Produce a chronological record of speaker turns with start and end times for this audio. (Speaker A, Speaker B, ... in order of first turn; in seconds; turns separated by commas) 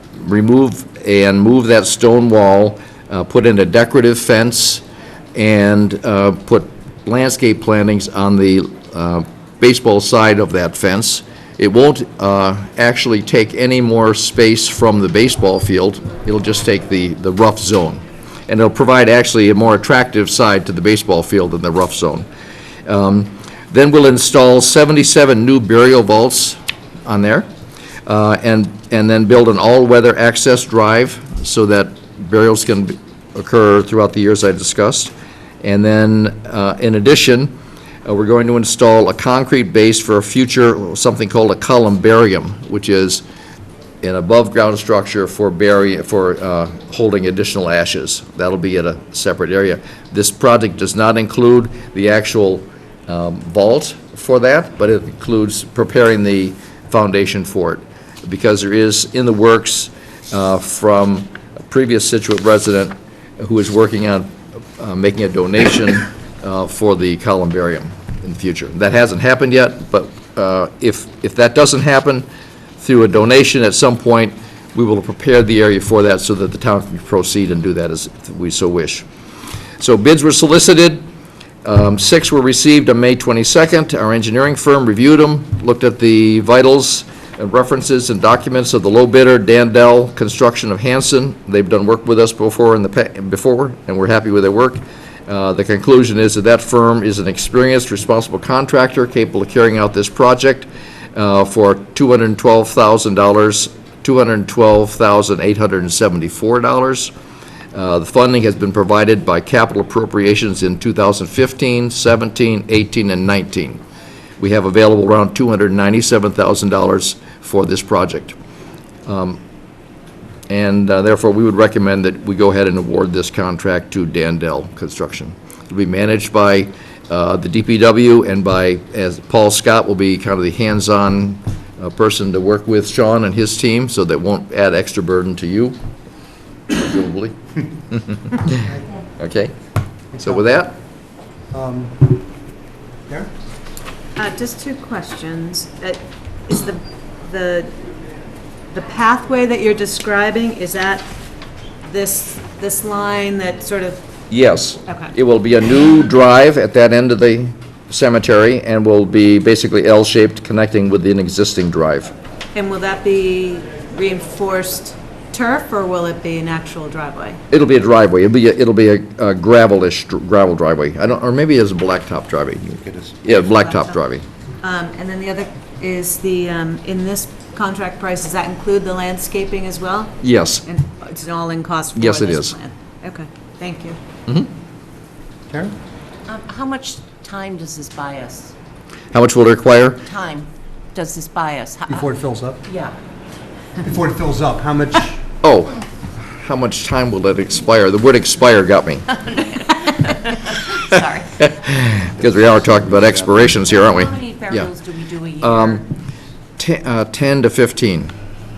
Speaker A: 0.2-4.8, Speaker A: 5.3-22.3, Speaker A: 22.9-27.5, Speaker A: 28.1-43.2, Speaker A: 44.0-72.2, Speaker A: 72.8-79.1, Speaker A: 79.8-81.0, Speaker A: 81.6-107.1, Speaker A: 107.7-113.8, Speaker A: 114.4-118.4, Speaker A: 119.1-119.4, Speaker A: 120.5-135.8, Speaker A: 136.7-137.4, Speaker A: 137.9-139.5, Speaker B: 140.1-140.4, Speaker A: 140.2-140.8, Speaker B: 141.5-142.0, Speaker C: 144.2-147.7, Speaker C: 148.7-151.1, Speaker C: 151.8-154.0, Speaker A: 154.3-162.1, Speaker C: 154.8-155.1, Speaker C: 162.5-167.4, Speaker A: 167.5-174.2, Speaker C: 173.3-173.9, Speaker C: 174.6-184.0, Speaker A: 180.2-180.7, Speaker A: 181.9-182.5, Speaker B: 185.5-185.8, Speaker D: 186.2-188.5, Speaker A: 189.1-190.1, Speaker D: 190.1-192.9, Speaker B: 191.9-192.6, Speaker B: 193.8-195.2, Speaker A: 195.4-199.2, Speaker D: 199.5-201.5, Speaker A: 201.4-204.7, Speaker D: 203.7-205.8, Speaker A: 205.4-205.9, Speaker A: 206.6-208.1